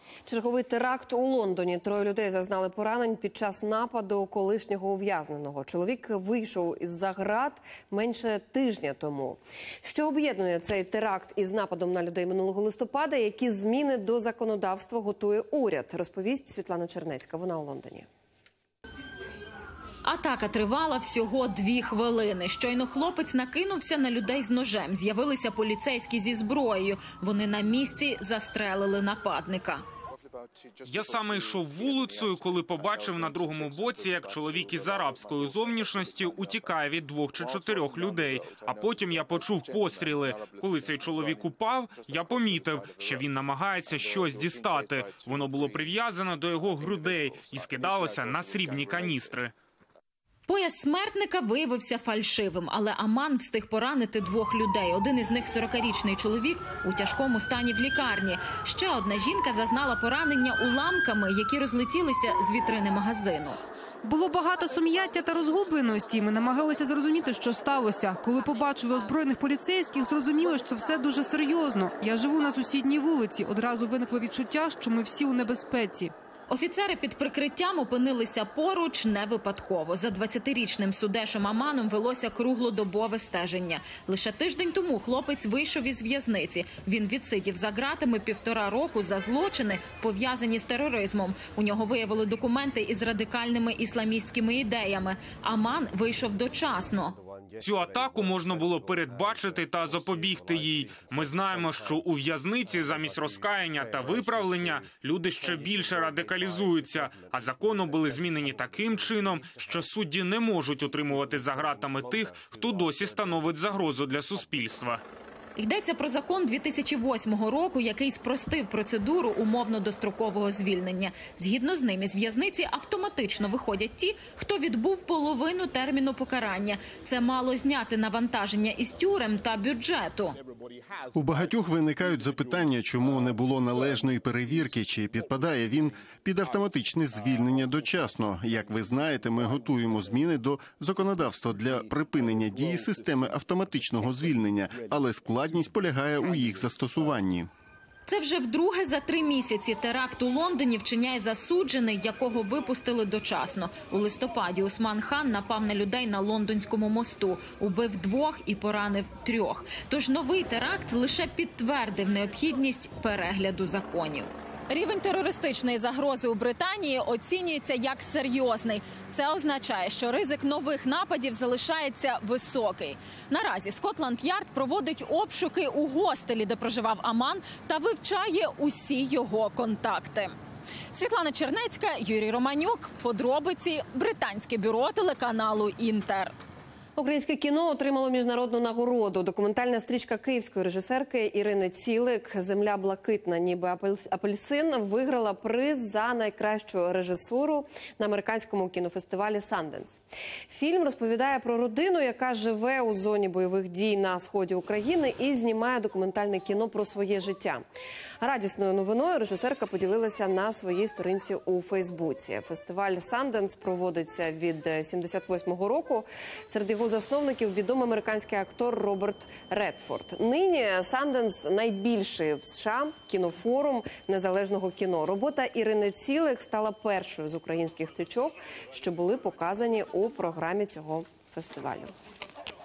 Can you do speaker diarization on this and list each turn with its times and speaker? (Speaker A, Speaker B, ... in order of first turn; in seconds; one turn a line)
Speaker A: 0.3-18.1
Speaker B: 20.0-29.8
Speaker C: 30.9-49.5
Speaker B: 50.5-63.6
Speaker D: 64.1-76.1
Speaker B: 76.5-97.2
Speaker C: 97.6-115.0
Speaker B: 115.6-130.4
Speaker E: 131.2-147.5
Speaker B: 148.1-180.3
Speaker B: 180.9-186.3
Speaker A: 187.0-200.0
Speaker A: 200.5-207.6
Speaker A: 208.2-231.9